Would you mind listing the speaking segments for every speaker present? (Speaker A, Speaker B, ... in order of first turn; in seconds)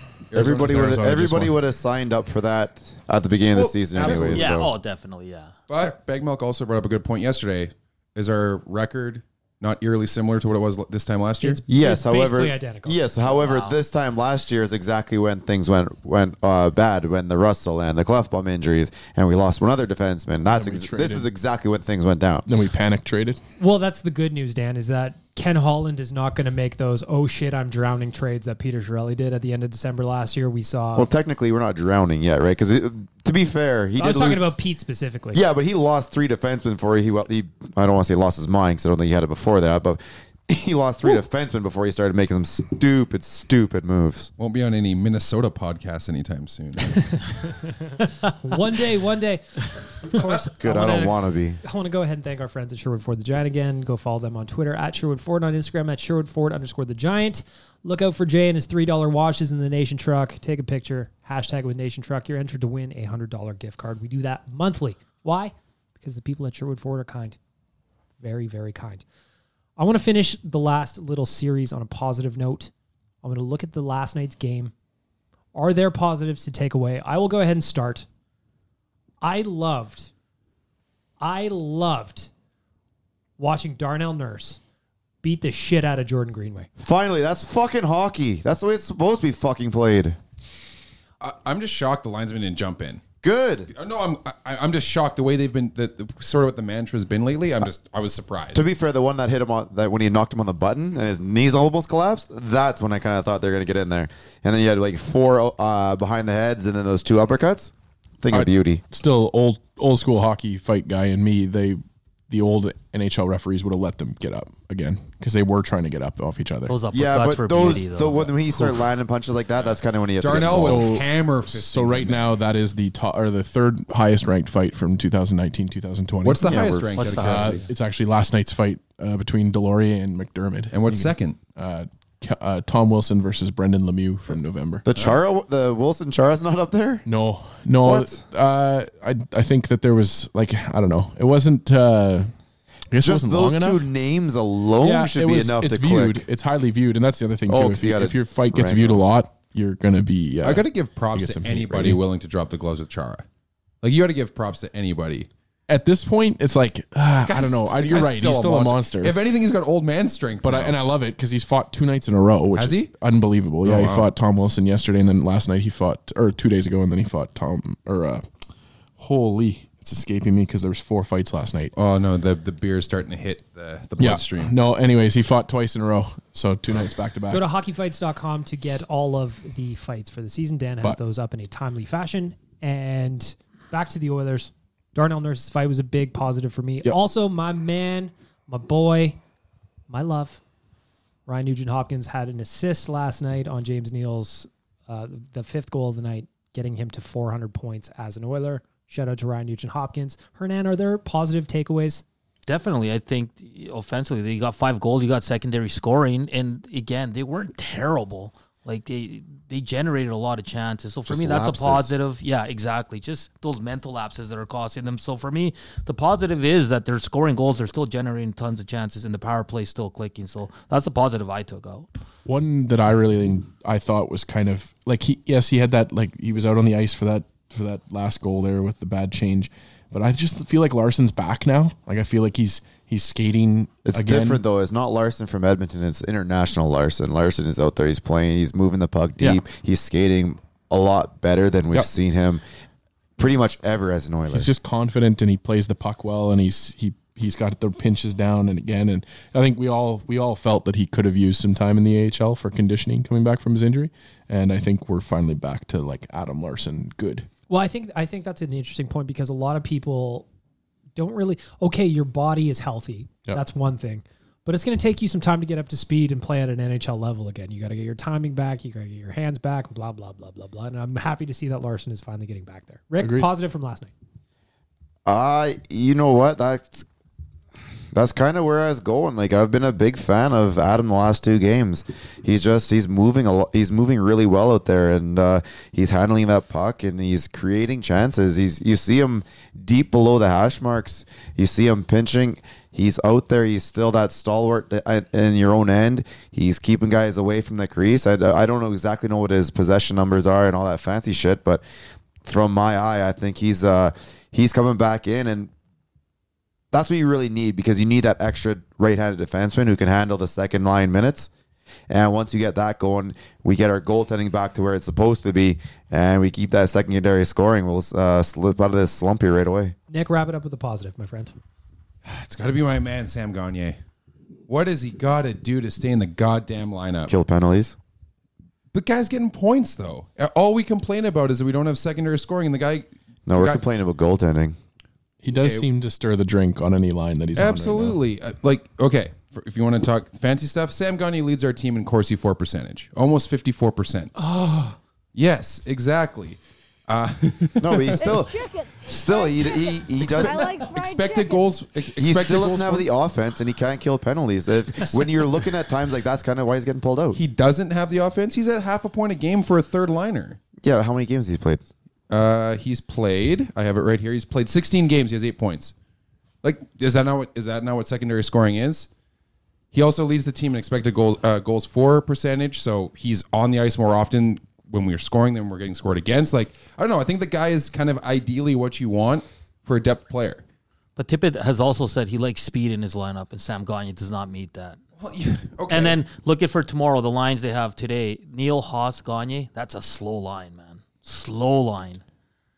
Speaker A: 0.3-1.0, 3.5-4.5, 5.7-11.6, 44.4-47.2, 91.2-93.0, 93.7-98.6, 120.2-122.4, 126.2-127.7, 130.7-131.4, 150.4-153.2, 153.8-155.3, 157.2-160.8, 162.5-162.9, 163.6-164.1, 171.7-174.5, 322.0-323.8, 324.5-327.1, 328.7-333.6, 335.3-335.7, 337.3-344.1, 345.1-348.2, 350.0-352.9, 357.1-360.4, 362.1-365.7, 366.4-368.9, 369.7-380.4, 385.0-386.0
Speaker B: 0.3-1.6, 20.5-21.3, 22.5-23.4, 108.3-116.7, 120.3-134.8, 137.1-142.3, 142.9-143.9, 144.8-152.0, 155.7-159.2, 160.4-168.2, 169.0-171.7, 174.0-177.4, 222.2-234.4, 244.3-257.3, 273.0-273.3, 335.2-338.0
Speaker C: 0.3-4.7, 11.7-22.4, 30.9-34.5, 35.3-44.3, 50.6-51.6, 86.8-90.2, 93.2-93.7, 98.5-108.8, 116.9-121.0, 126.4-126.8, 134.8-137.0, 137.8-138.2, 143.0-146.2, 147.5-149.0, 211.1-211.9, 233.8-242.4, 243.2-244.5, 275.1-276.9, 277.9-301.6, 302.2-305.5, 306.7-311.3, 311.9-319.7, 327.1-327.8, 333.3-334.6, 347.6-350.6, 352.0-357.2, 360.6-361.6
Speaker D: 3.9-4.5, 11.4-13.0, 23.6-31.1, 34.0-35.4, 47.8-67.4, 68.2-69.0, 69.8-72.7, 73.2-74.7, 75.5-78.0, 79.2-80.1, 81.2-82.3, 83.4-84.6, 85.2-86.7, 177.3-189.2, 189.9-190.4, 191.3-202.0, 257.5-260.2, 260.9-273.9, 319.9-321.3, 344.3-344.7
Speaker E: 4.1-5.5, 13.3-13.8, 116.7-118.8, 127.0-127.7, 202.5-221.9, 381.0-384.8, 385.7-392.0